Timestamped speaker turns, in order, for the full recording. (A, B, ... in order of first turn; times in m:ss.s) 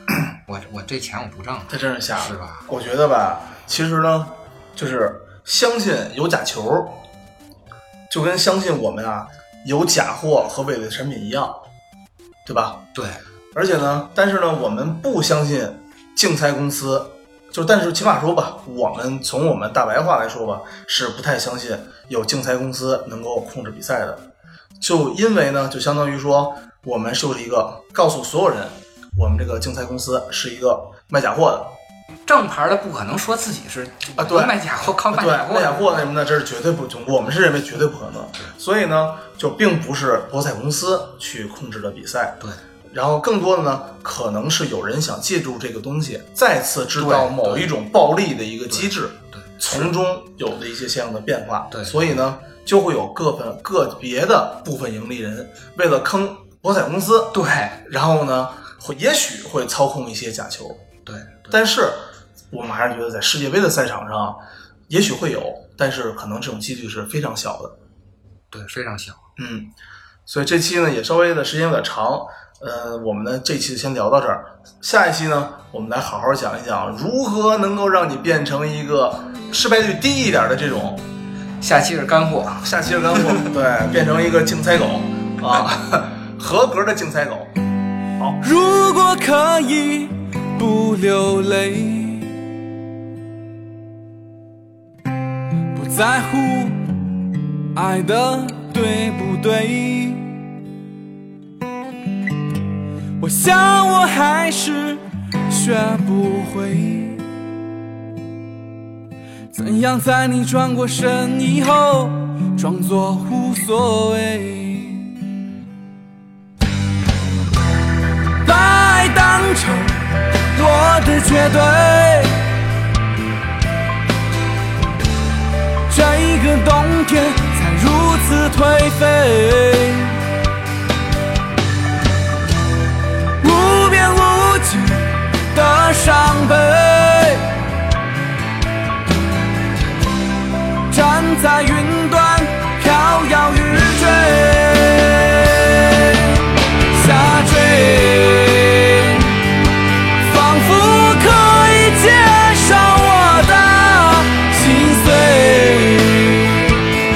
0:00.4-0:02.7 A
0:01.7-0:07.0 B
0:08.1-0:11.6 B
0:12.4-0:12.8 B
0:13.0-0:13.2 A
0:13.5-0:24.3 B
0:24.8-0:31.8 B
0:32.3-0:36.0 A
0:34.2-0:34.6 B
0:35.1-1:00.9 B
0:47.0-0:47.7 A
0:48.7-0:49.9 A
0:51.7-0:52.1 A
0:57.3-0:57.8 A
1:01.1-1:01.6 A
1:01.5-1:07.8 B
1:08.5-1:09.2 A
1:09.4-1:09.7 B
1:10.3-1:21.1 B
1:21.6-1:23.4 A
1:22.6-1:27.5 B
1:28.4-1:32.4 C
1:35.7-1:37.1 C
1:37.7-1:40.5 C
1:43.2-1:47.2 C
1:49.5-1:55.2 C
1:58.4-2:02.5 C
2:05.9-2:10.2 C
2:13.4-2:17.5 C
2:20.9-2:29.4 C
2:30.2-2:36.6 C